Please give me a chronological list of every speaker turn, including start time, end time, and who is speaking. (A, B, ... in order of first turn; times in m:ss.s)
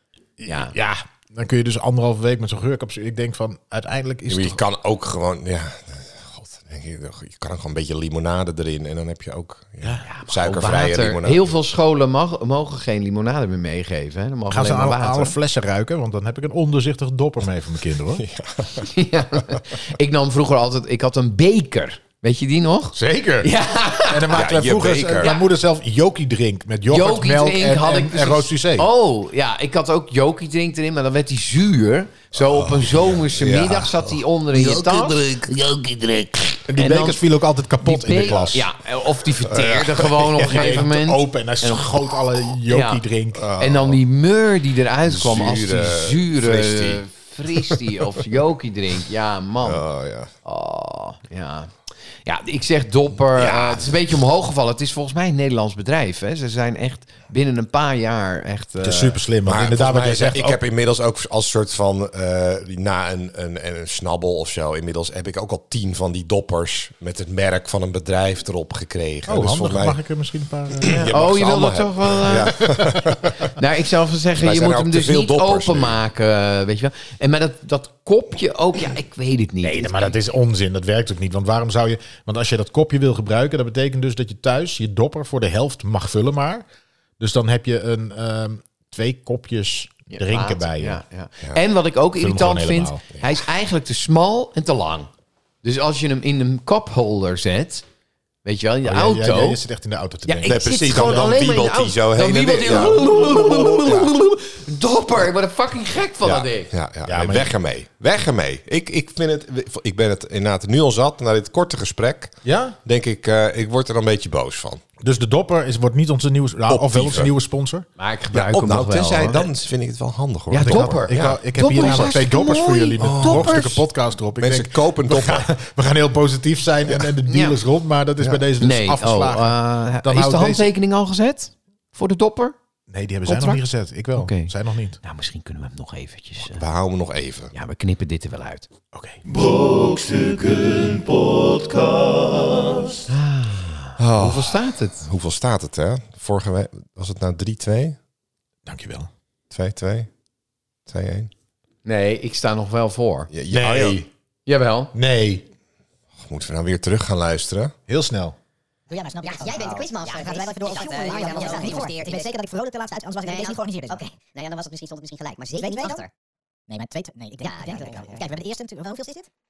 0:00.4-0:04.6 A
0:00.5-0:00.7 B
0:04.3-0:11.5 C
0:10.0-0:15.4 B
0:14.5-0:18.2 A
0:18.2-0:18.9 C
0:18.8-0:24.5 B
0:23.0-0:23.5 A
0:24.1-0:28.9 A
0:24.3-0:25.4 C
0:26.9-0:37.2 B
0:32.5-0:35.6 C
0:36.7-0:38.7 A
0:37.8-0:41.9 B
0:39.5-0:40.8 C
0:40.4-0:43.5 A
0:42.7-0:43.0 B
0:43.4-0:44.0 C
0:43.6-0:49.8 B
0:45.1-0:48.0 C
0:49.6-0:50.3 C
0:50.4-0:59.2 B
0:53.3-0:54.0 C
0:58.8-1:00.6 A
0:59.4-1:10.0 C
1:09.3-1:11.1 A
1:10.8-1:13.6 C
1:10.8-1:20.1 B
1:14.4-1:16.0 C
1:19.6-1:26.6 A
1:27.2-1:31.0 A
1:30.1-1:35.1 B
1:32.2-1:33.0 A
1:35.6-1:37.8 B
1:38.4-1:39.6 B
1:38.8-1:41.4 A
1:40.3-1:46.7 B
1:40.4-1:44.1 C
1:46.2-1:54.8 C
1:47.1-1:47.5 A
1:52.4-1:52.8 A
1:55.0-1:57.9 A
1:56.7-1:57.3 C
1:58.0-1:59.5 B
1:58.3-2:02.2 C
2:00.5-2:03.8 B
2:00.6-2:10.7 A
2:03.0-2:03.8 C
2:04.4-2:05.5 C
2:07.3-2:07.6 B
2:08.6-2:12.6 B
2:12.9-2:15.0 A
2:13.3-2:13.6 B
2:14.2-2:16.6 B
2:16.5-2:17.5 C
2:17.5-2:18.7 B
2:18.9-2:19.5 A
2:23.1-2:25.0 B
2:24.0-2:28.0 C
2:28.6-2:29.1 A
2:29.5-2:30.1 C
2:30.9-2:31.3 C
2:31.8-2:33.3 B
2:33.3-2:34.0 C
2:33.5-2:34.1 A
2:34.5-2:34.9 B
2:34.9-2:35.4 A
2:36.2-2:37.7 C
2:37.9-2:38.4 A
2:38.9-2:44.1 D
2:39.2-2:42.3 E
2:43.2-2:46.1 E
2:45.6-2:46.1 D
2:46.7-2:49.3 D
2:47.4-2:48.3 E